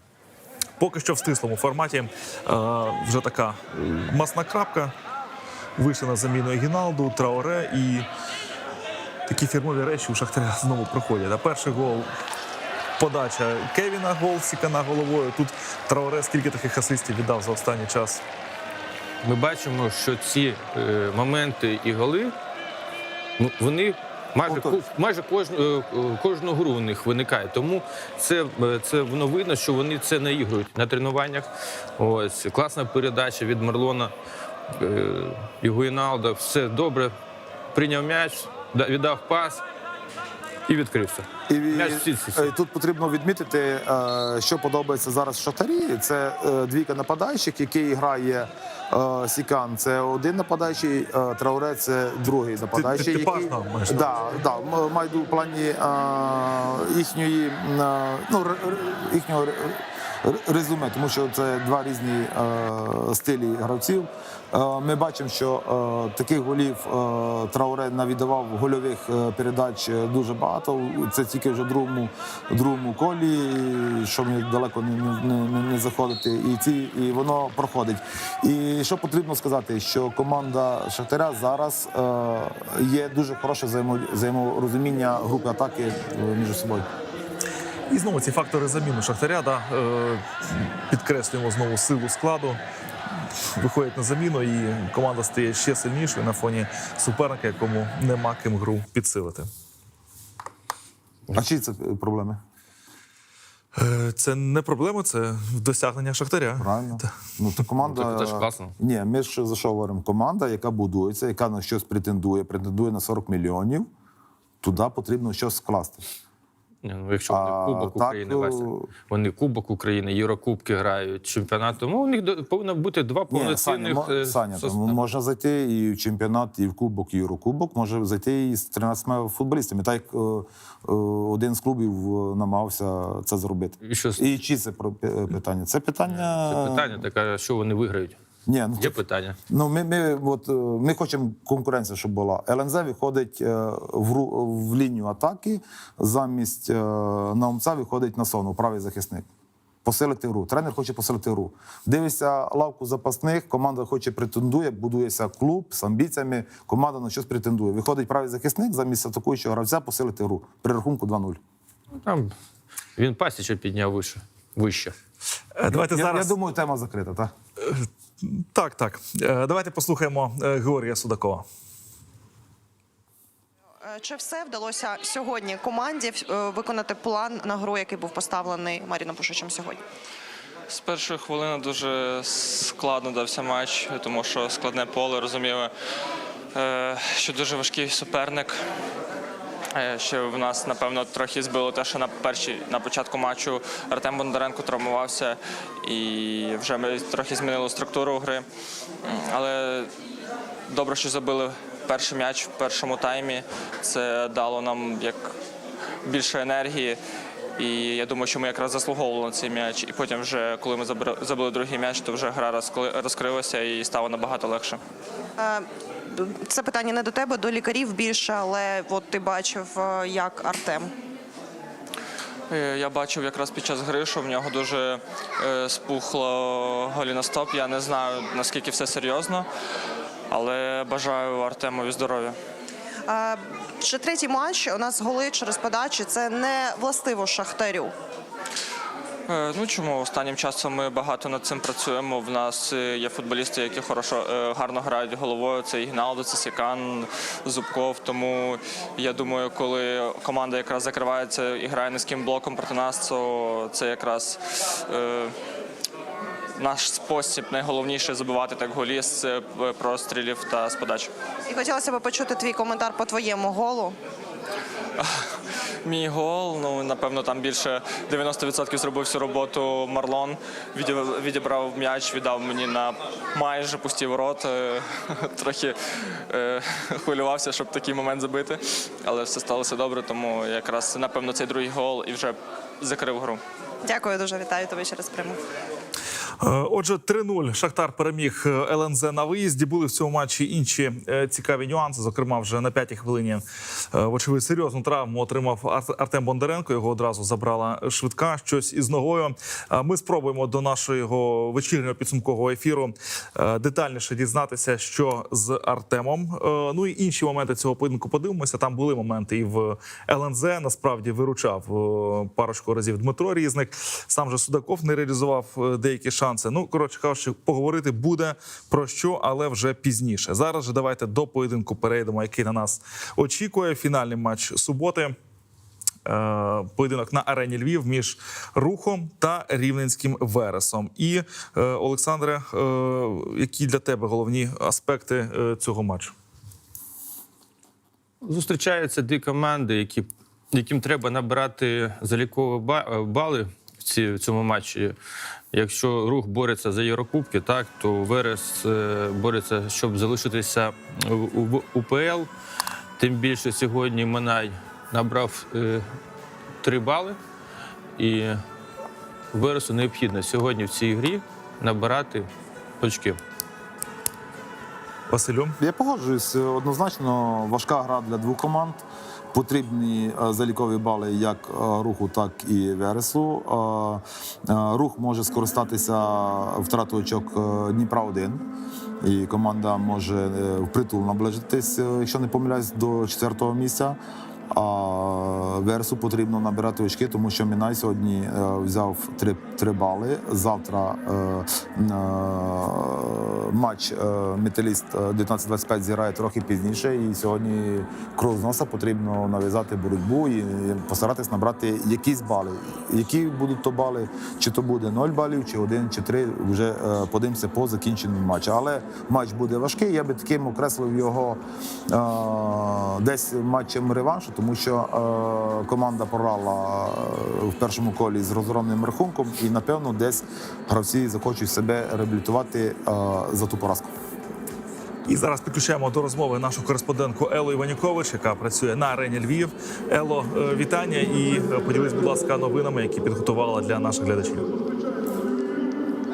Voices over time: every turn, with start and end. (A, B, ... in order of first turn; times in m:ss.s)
0:00.8-0:04.9 A
0:05.8-0:08.1 A
0:09.3-0:12.1 A
0:13.0-0:18.2 A
0:19.2-0:22.3 B
0:23.4-0:34.1 B
0:24.5-0:24.8 C
0:34.7-0:37.1 B
0:37.7-0:39.6 B
0:40.7-0:42.5 B
0:41.5-1:26.9 C
0:52.7-0:54.3 A
1:27.9-1:32.6 A
1:33.6-1:39.5 A
1:41.3-1:42.4 C
1:43.8-1:47.1 A
1:46.6-1:53.9 C
1:47.8-1:48.7 B
1:54.6-1:56.0 C
1:56.8-2:05.0 B
1:57.3-1:58.9 C
2:03.3-2:17.0 C
2:13.8-2:14.3 B
2:16.0-2:18.2 B
2:18.5-2:19.0 C
2:18.8-2:19.4 B
2:19.5-2:29.3 C
2:29.8-2:41.4 C
2:42.0-2:42.3 B
2:43.0-2:45.0 B
2:45.6-2:46.3 A
2:45.7-2:47.3 C
2:47.6-2:51.4 A
2:53.8-2:59.8 D
3:00.7-3:05.7 E
3:06.6-3:08.5 E
3:09.8-3:18.5 E
3:19.0-3:19.9 E
3:20.7-3:25.2 E
3:26.1-3:27.0 E
3:27.6-3:34.8 E
3:35.4-3:40.9 D
3:42.5-3:49.5 E
3:50.3-3:52.3 E
3:53.1-3:57.9 D
3:59.3-4:15.4 E
4:16.6-4:21.1 E
4:21.5-4:24.0 D
4:25.8-4:35.8 E
4:36.3-4:43.4 E
4:43.8-4:45.4 D
4:46.4-5:25.2 A
5:26.1-5:36.1 A
5:38.2-5:45.0 B
5:45.5-5:52.3 B
5:53.0-5:55.8 B
5:56.6-5:57.2 B
5:58.0-5:58.4 B
5:59.3-6:02.3 B
6:02.8-6:03.2 B
6:05.1-6:05.6 A
6:05.6-6:08.8 C
6:09.3-6:18.4 C
6:19.0-6:24.0 C
6:24.5-6:51.4 C
6:51.9-7:03.9 C
7:05.1-7:14.5 A